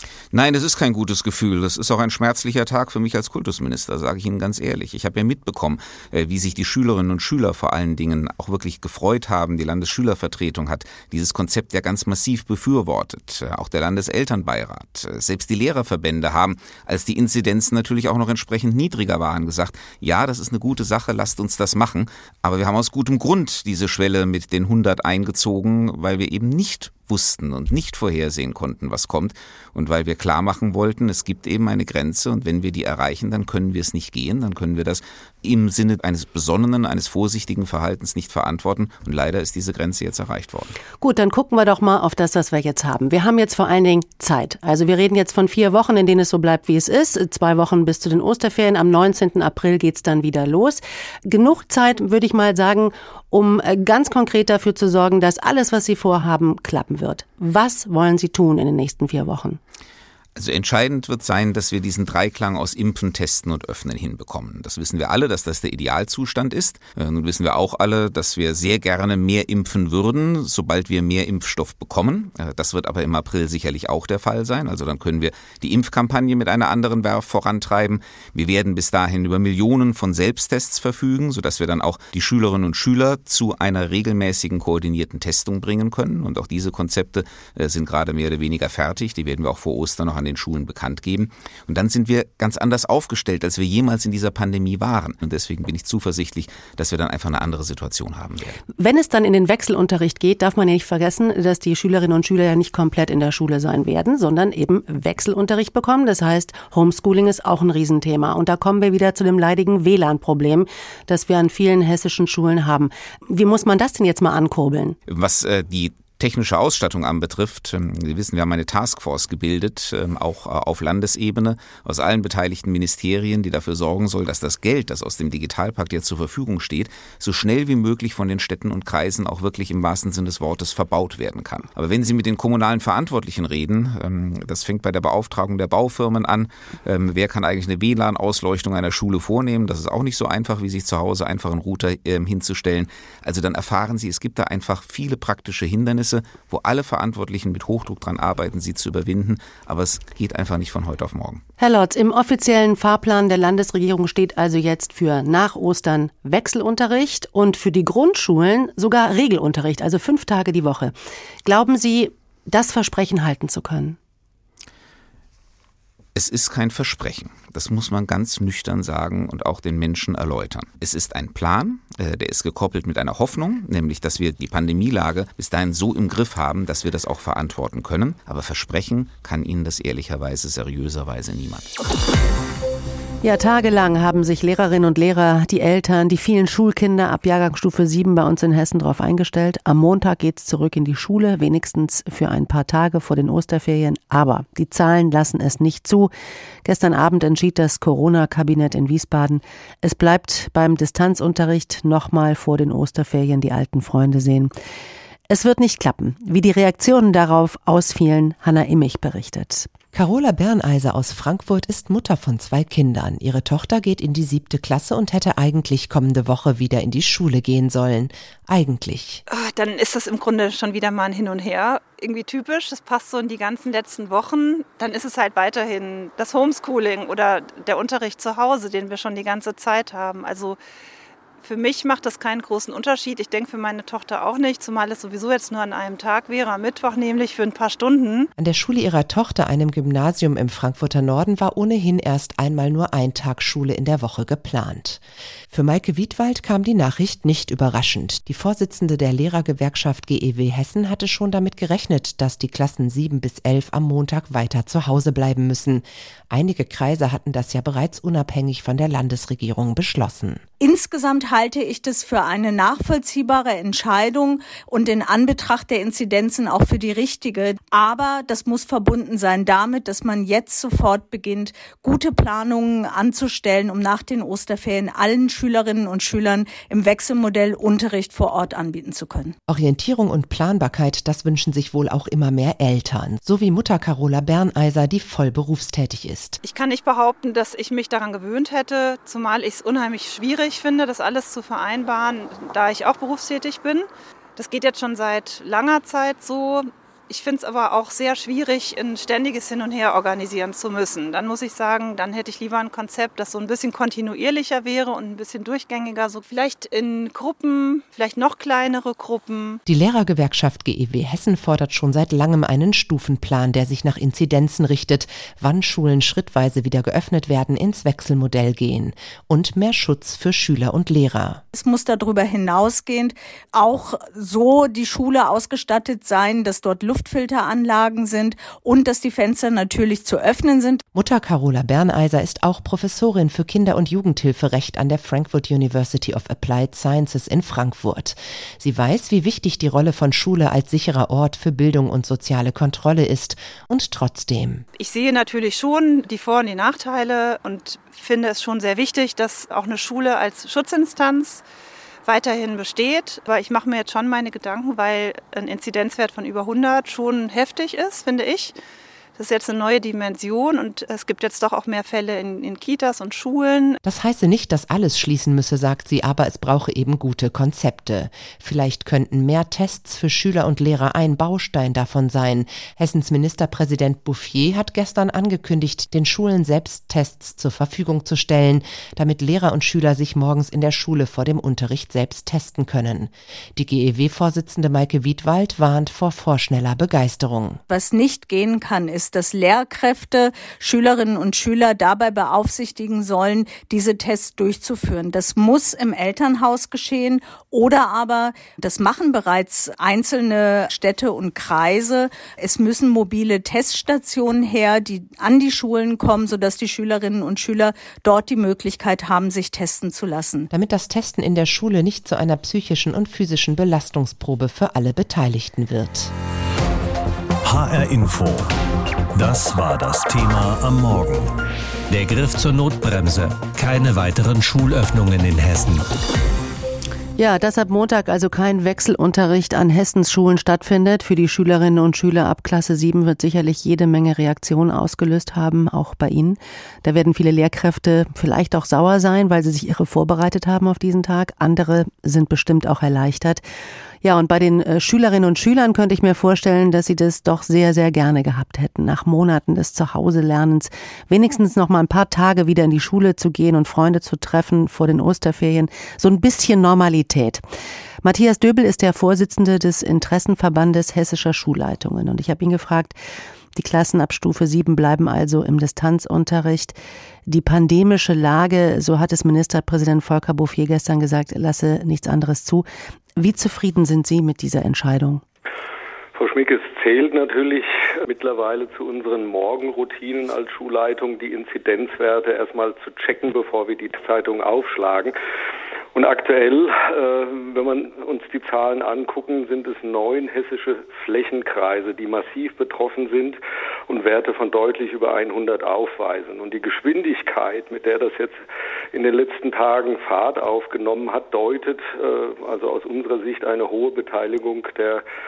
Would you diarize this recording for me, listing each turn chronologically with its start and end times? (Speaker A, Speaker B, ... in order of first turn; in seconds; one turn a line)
Speaker A: 0.3-40.8
Speaker B: 41.0-59.6
Speaker A: 60.4-98.6
Speaker B: 98.8-115.0
Speaker A: 115.1-151.4
Speaker B: 151.6-160.9
Speaker B: 161.4-164.0
Speaker A: 166.2-181.7
Speaker B: 183.2-196.1
Speaker B: 196.6-204.5
Speaker B: 205.3-209.7
Speaker C: 209.9-219.2
Speaker D: 219.3-230.6
Speaker D: 231.4-238.3
Speaker C: 238.4-260.4
Speaker E: 260.6-279.4
Speaker C: 279.5-286.4
Speaker D: 286.4-309.6
Speaker C: 309.7-321.4
Speaker E: 321.5-330.8
Speaker C: 330.9-344.6
Speaker D: 344.8-351.4
Speaker D: 352.1-358.6
Speaker D: 359.2-363.8
Speaker C: 363.9-387.6
Speaker E: 387.7-410.5
Speaker C: 410.5-416.1
Speaker F: 417.4-418.5
Speaker F: 419.1-421.3
Speaker F: 421.9-425.9
Speaker B: 427.2-443.4
Speaker B: 444.0-457.4
Speaker B: 458.0-463.0
Speaker B: 463.6-466.8
Speaker B: 467.3-475.2
Speaker G: 476.1-485.1
Speaker G: 485.9-498.4
Speaker G: 498.9-505.0